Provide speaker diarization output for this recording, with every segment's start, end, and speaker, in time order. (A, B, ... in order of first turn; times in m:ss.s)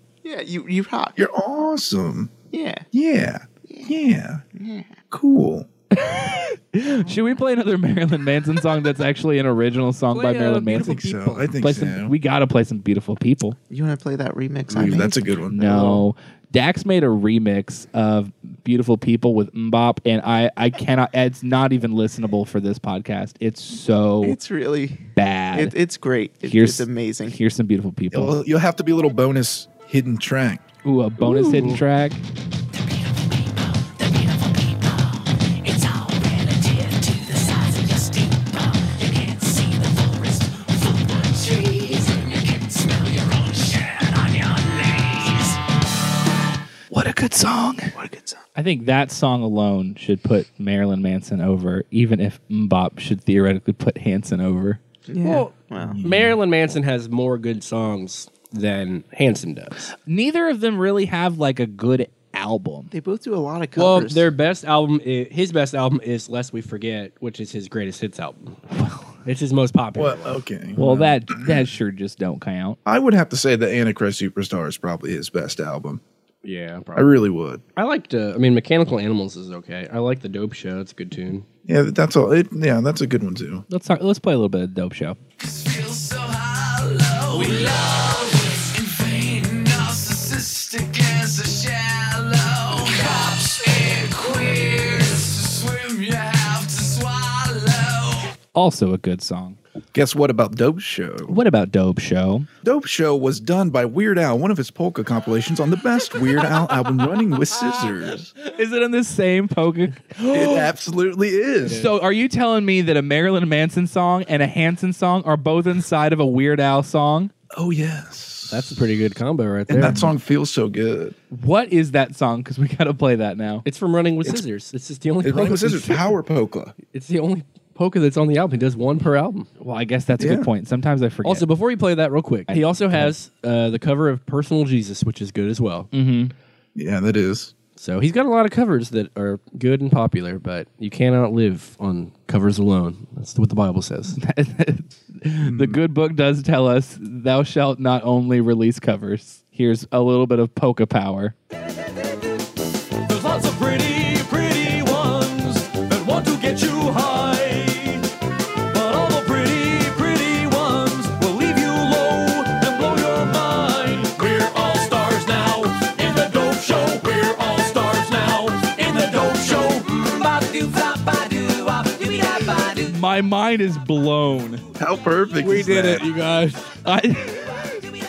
0:00.2-0:01.2 A
0:01.2-0:02.3 B
0:02.5-0:02.8 A
0:02.9-0:04.4 B
0:03.7-0:03.9 A
0:04.5-0:05.0 A
0:05.1-0:05.7 B
0:05.9-0:13.6 C
0:07.0-0:07.4 A
0:10.1-0:11.5 D
0:10.7-0:12.1 B
0:13.7-0:15.2 A
0:14.7-0:16.0 B
0:15.5-0:24.4 C
0:24.2-0:27.4 A
0:25.2-0:25.8 C
0:26.4-0:28.4 C
0:28.1-0:30.6 B
0:30.8-0:32.2 C
0:31.3-0:31.8 D
0:32.7-0:45.6 E
0:46.9-0:48.0 C
0:48.0-0:48.4 A
0:48.6-0:54.8 C
0:55.1-0:56.0 A
0:55.2-0:59.9 D
0:55.8-0:56.4 B
1:00.1-1:02.9 C
1:02.9-1:04.3 A
1:03.8-1:08.6 D
1:08.7-1:09.1 C
1:09.2-1:10.4 D
1:10.0-1:11.6 B
1:10.8-1:12.8 C
1:12.9-1:16.0 B
1:16.4-1:17.1 D
1:17.0-1:17.6 B
1:17.8-1:21.5 D
1:21.7-1:23.6 B
1:23.7-1:25.2 C
1:25.4-1:38.4 E
1:38.5-1:39.6 C
1:39.9-1:41.4 B
1:41.3-1:42.5 C
1:42.6-1:48.3 B
1:47.7-1:50.7 C
1:50.3-1:51.9 B
1:51.7-1:57.3 C
1:57.5-1:58.8 B
1:58.5-2:00.1 D
1:59.7-2:01.2 B
2:01.3-2:03.7 C
2:03.6-2:06.1 D
2:05.2-2:06.8 B
2:06.9-2:09.5 D
2:09.6-2:11.4 C
2:10.2-2:10.5 B
2:11.2-2:15.9 D
2:12.5-2:13.1 C
2:15.9-2:16.3 C
2:16.8-2:17.5 B
2:17.8-2:24.2 D
2:24.2-2:31.4 C
2:25.4-2:25.8 B
2:33.0-2:38.1 E
2:38.7-2:52.9 E
2:52.8-2:54.6 C
2:54.8-2:56.0 B
2:55.4-2:56.7 D
2:56.8-2:57.8 C